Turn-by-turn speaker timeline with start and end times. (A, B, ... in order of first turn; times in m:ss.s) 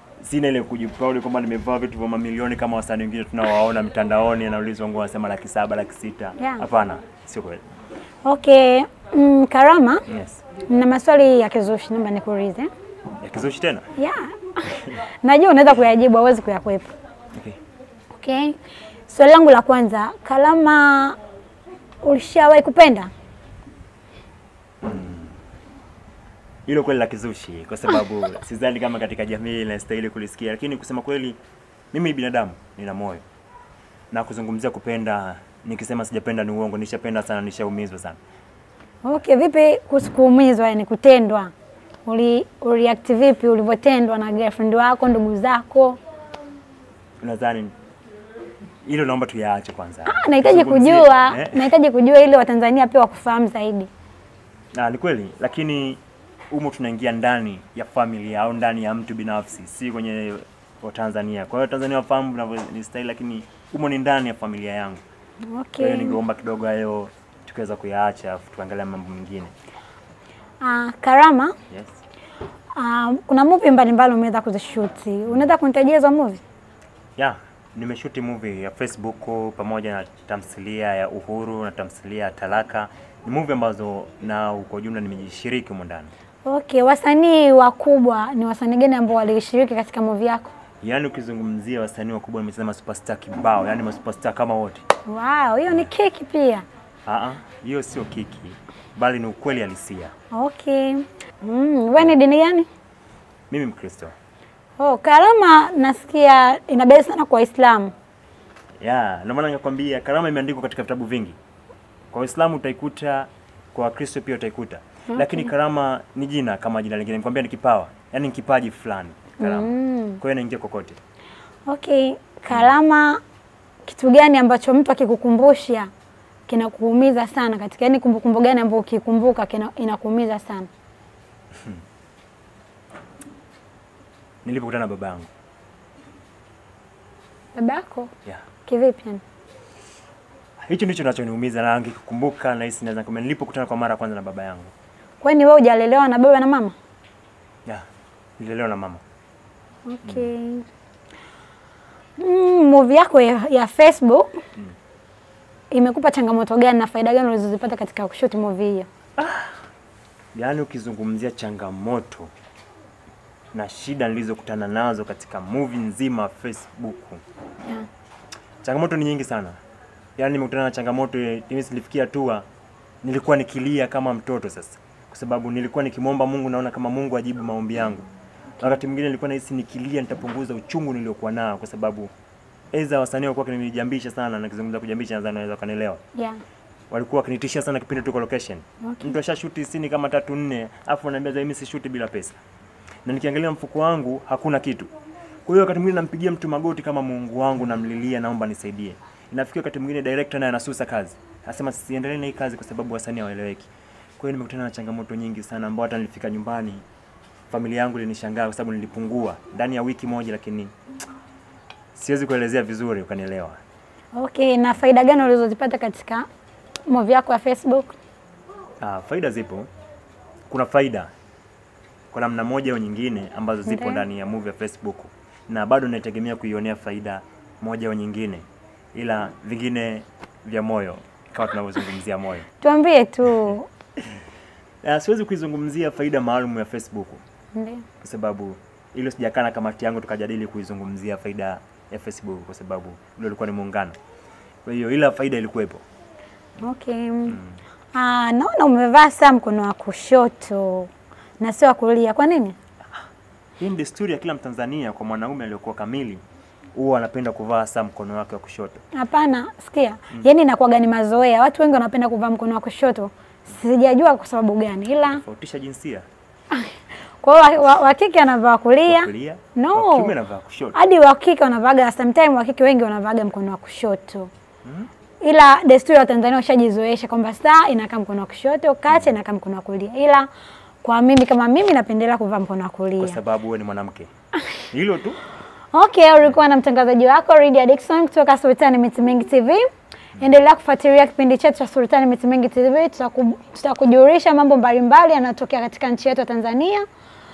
0:00.2-0:07.6 A
0:08.2-0:10.0 B
0:10.1-0:10.4 A
0:10.7-0:12.7 B
0:13.2-0:13.9 A
0:14.0-0:16.9 B
0:18.1-0:18.6 B
0:19.1-0:21.2 B
0:22.0-0:23.1 B
0:24.8-0:25.3 A
0:26.7-0:31.4 A
0:31.9-0:33.2 A
0:34.1-0:38.2 A
0:39.0-0:41.5 B
0:42.1-0:46.0 B
0:47.2-0:47.7 A
0:48.8-0:51.7 A
0:50.1-0:53.9 B
0:54.7-1:05.0 A
1:05.5-1:06.2 B
1:05.8-1:09.5 A
1:10.6-1:11.6 B
1:11.7-1:11.9 A
1:12.8-1:16.4 B
1:17.2-1:26.1 A
1:26.5-1:30.5 B
1:30.8-1:34.8 A
1:35.1-1:36.6 B
1:37.1-1:40.1 A
1:40.3-1:42.7 B
1:43.5-1:44.1 A
1:44.8-1:47.9 B
1:48.8-1:51.4 A
1:52.1-2:01.0 A
1:55.1-1:55.5 B
1:59.4-2:00.2 B
2:01.7-2:03.2 B
2:03.8-2:05.9 B
2:06.5-2:10.7 B
2:14.4-2:15.3 A
2:17.6-2:18.1 B
2:18.6-2:19.2 B
2:20.7-2:24.7 A
2:25.2-2:26.8 B
2:28.4-2:29.0 A
2:29.9-2:30.7 B
2:32.2-2:34.4 B
2:35.7-2:38.9 B
2:39.2-2:39.5 A
2:40.3-2:42.3 A
2:43.5-2:47.2 A
2:48.6-2:49.6 A
2:50.2-2:52.5 A
2:53.0-2:58.1 A
2:58.6-3:02.1 A
3:02.7-3:06.0 A
3:06.2-3:06.4 B
3:06.9-3:12.4 A
3:08.8-3:09.2 B
3:13.0-3:14.9 A
3:15.5-3:26.8 A
3:27.5-3:30.7 A
3:31.9-3:33.6 A
3:34.2-3:36.3 B
3:36.9-3:38.0 B
3:38.8-3:39.7 A
3:40.5-3:41.1 A
3:42.1-3:52.5 A
3:43.7-3:44.0 B
3:52.6-3:53.7 B
3:54.8-3:57.2 A
3:57.6-3:57.8 B
3:58.0-4:04.0 A
4:04.6-4:05.8 A
4:06.6-4:07.4 B
4:07.3-4:07.6 A
4:07.9-4:12.6 B
4:13.6-4:16.2 A
4:16.8-4:18.8 A
4:18.9-4:25.2 B
4:25.1-4:26.1 A
4:26.5-4:30.2 B
4:28.9-4:30.8 A
4:30.7-4:34.3 B
4:34.6-4:34.9 A
4:35.2-4:40.3 B
4:40.8-4:43.2 B
4:43.0-4:44.1 A
4:44.7-4:45.2 A
4:45.7-4:49.7 B
4:50.2-4:56.8 B